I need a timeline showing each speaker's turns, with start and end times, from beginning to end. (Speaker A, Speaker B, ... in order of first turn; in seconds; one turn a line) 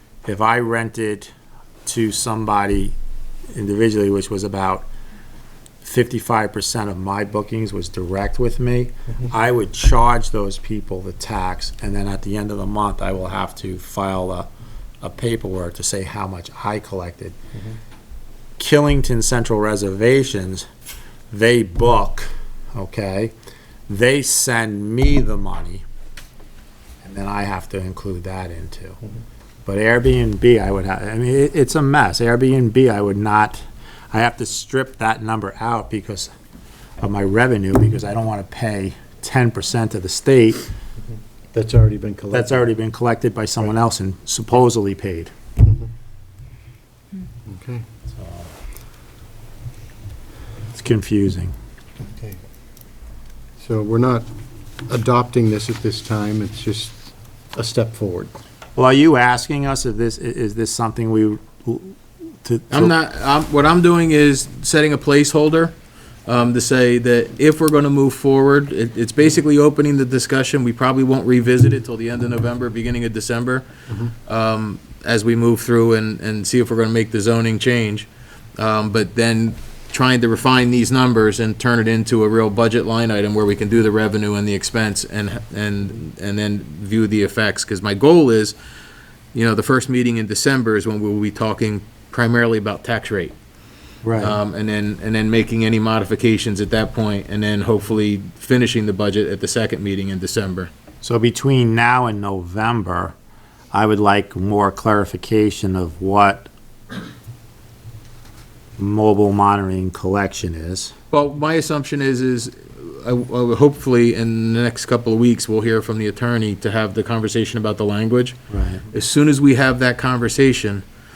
Speaker A: 0.2-1.3
Speaker A: 1.9-2.9
Speaker A: 3.5-4.9
Speaker A: 5.8-14.5
Speaker A: 15.0-17.4
Speaker A: 18.6-20.6
Speaker A: 21.3-23.3
Speaker A: 23.9-25.8
Speaker A: 27.0-29.0
Speaker A: 29.6-36.3
Speaker A: 37.0-40.7
Speaker B: 41.5-42.6
Speaker A: 42.3-45.3
Speaker B: 45.6-45.9
Speaker B: 47.5-47.8
Speaker A: 48.1-48.5
Speaker A: 50.7-51.5
Speaker B: 52.0-52.4
Speaker B: 53.6-54.3
Speaker B: 54.9-58.3
Speaker A: 58.8-62.9
Speaker C: 62.7-65.7
Speaker C: 66.2-73.7
Speaker C: 74.2-88.5
Speaker C: 89.3-93.3
Speaker A: 94.0-94.4
Speaker C: 94.2-100.7
Speaker A: 101.0-103.1
Speaker A: 103.7-106.5
Speaker A: 108.8-110.9
Speaker C: 111.1-120.8
Speaker A: 118.5-118.8